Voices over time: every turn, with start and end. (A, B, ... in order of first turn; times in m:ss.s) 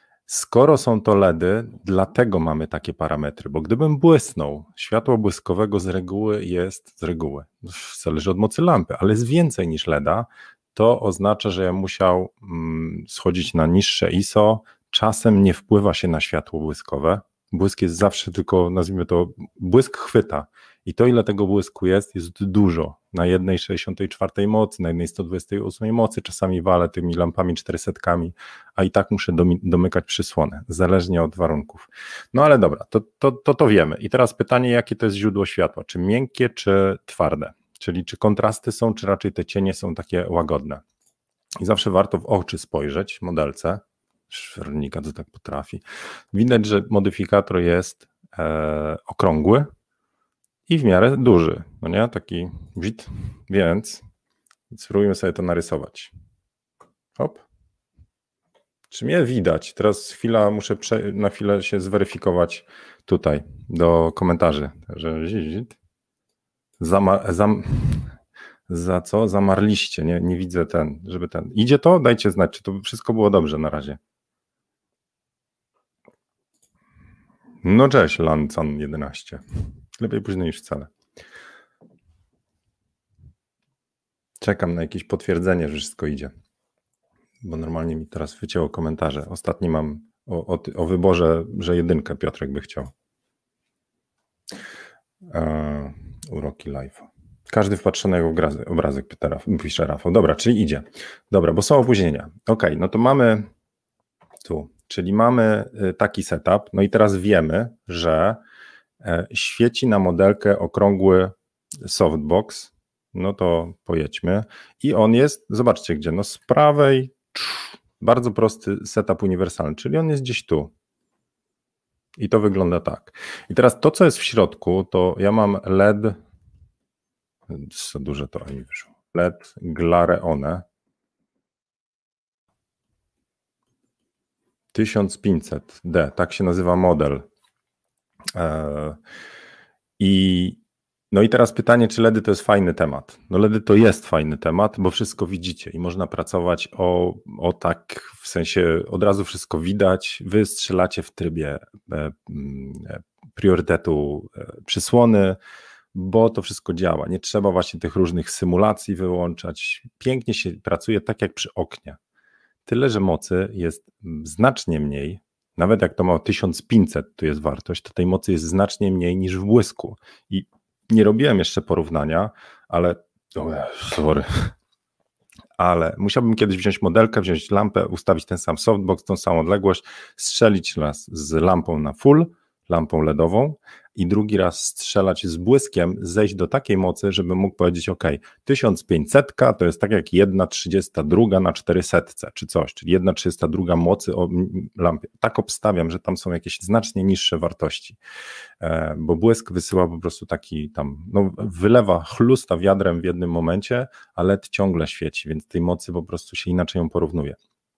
0:00.3-0:40.8 A
0:41.6-0:49.7 A
0:50.7-0:54.0 A
0:54.7-0:56.1 A
0:57.2-0:57.4 A
0:58.9-1:05.8 A
1:06.8-1:08.1 A
1:08.7-1:14.0 A
1:17.6-1:19.4 A
1:20.0-1:20.9 A
1:24.4-1:26.3 A
1:27.4-1:32.9 A
1:35.3-1:43.5 A
1:44.4-1:48.4 A
1:49.0-2:00.7 A
2:02.2-2:06.2 A
2:07.5-2:10.6 A
2:14.7-2:17.2 A
2:18.3-2:19.0 A
2:20.0-2:20.6 A
2:21.1-2:35.4 A
2:35.9-2:42.0 A
2:42.6-2:54.5 A
2:55.6-3:18.0 A
3:18.6-3:27.4 A